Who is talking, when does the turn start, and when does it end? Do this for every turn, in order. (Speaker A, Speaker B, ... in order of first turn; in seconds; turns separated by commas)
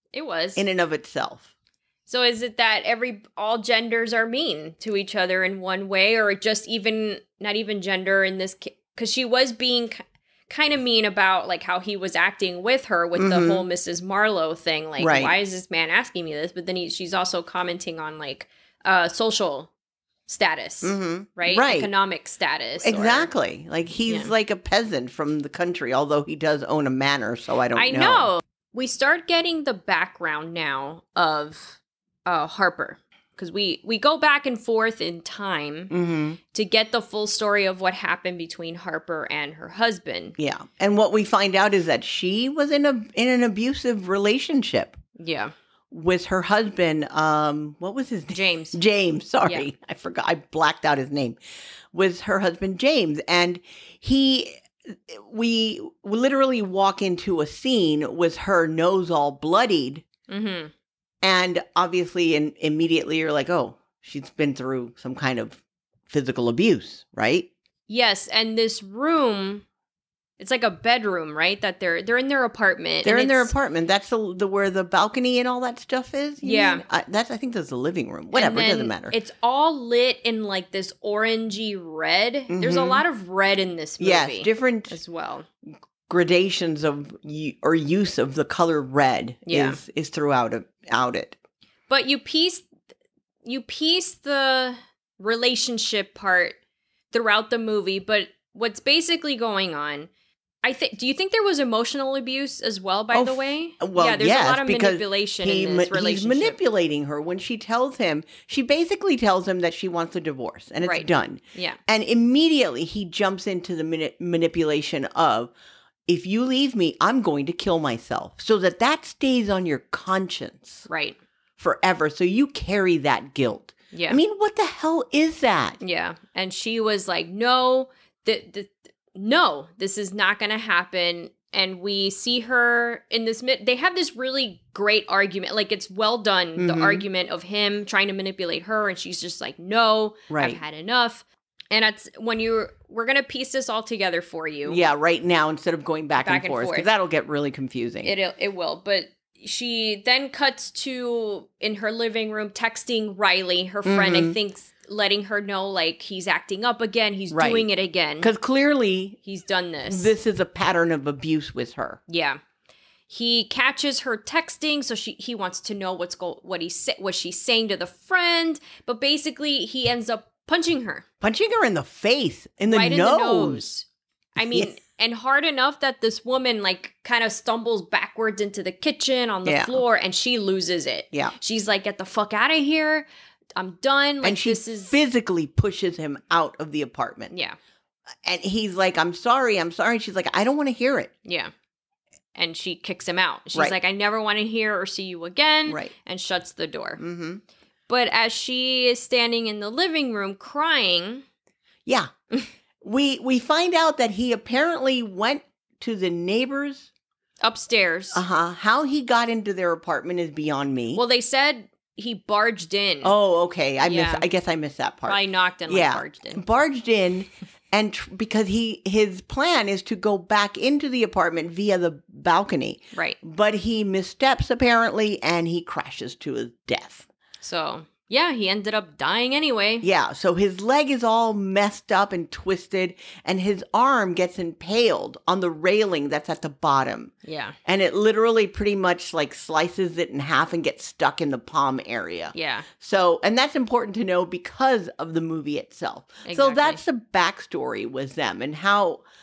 Speaker A: 0.1-0.6, Speaker B: 0.6-1.5, Speaker A: 2.1-19.7, Speaker B: 13.2-13.7, Speaker B: 15.0-15.3, Speaker A: 20.3-23.3, Speaker B: 20.8-21.9, Speaker B: 22.8-28.3, Speaker A: 27.8-35.9, Speaker B: 35.9-36.4, Speaker A: 36.5-40.4, Speaker B: 40.4-45.0, Speaker A: 45.2-45.5, Speaker B: 45.9-51.4, Speaker A: 48.3-48.8, Speaker B: 51.9-60.0, Speaker A: 60.3-60.7, Speaker B: 61.2-67.5, Speaker A: 67.9-69.7, Speaker A: 70.4-73.5, Speaker B: 73.0-79.2, Speaker A: 76.4-76.8, Speaker A: 78.3-85.5, Speaker B: 82.5-83.0, Speaker B: 84.0-85.0, Speaker B: 86.1-91.4, Speaker A: 89.5-89.8, Speaker A: 91.9-92.7, Speaker A: 93.5-96.6, Speaker A: 97.1-100.1, Speaker A: 100.6-106.6, Speaker B: 103.1-115.5, Speaker A: 110.8-111.8, Speaker B: 116.1-120.9, Speaker A: 120.9-121.2, Speaker B: 121.6-125.8, Speaker A: 123.9-124.2, Speaker A: 125.8-144.8, Speaker B: 136.6-137.1, Speaker B: 140.3-140.6, Speaker B: 144.7-148.1, Speaker A: 146.2-146.9, Speaker A: 148.0-158.3, Speaker B: 153.8-154.4, Speaker B: 157.3-157.7, Speaker B: 158.2-159.2, Speaker A: 159.2-160.1, Speaker B: 159.9-162.0, Speaker A: 162.1-162.4, Speaker A: 163.1-171.1, Speaker B: 171.2-173.7, Speaker A: 172.7-185.0, Speaker B: 174.4-174.7, Speaker B: 179.5-179.8, Speaker B: 184.2-187.3, Speaker A: 187.3-187.6, Speaker B: 188.2-191.1, Speaker A: 191.2-191.5, Speaker A: 192.3-197.0, Speaker B: 197.0-197.4, Speaker A: 197.9-201.2, Speaker B: 202.8-206.9, Speaker A: 207.4-208.2, Speaker B: 208.1-211.0, Speaker A: 210.9-213.1, Speaker B: 213.0-227.1, Speaker A: 213.8-214.3, Speaker A: 215.1-216.4, Speaker A: 227.4-229.9, Speaker B: 229.8-237.1, Speaker A: 237.2-237.6, Speaker B: 237.7-249.0, Speaker A: 242.3-242.7, Speaker A: 246.2-246.8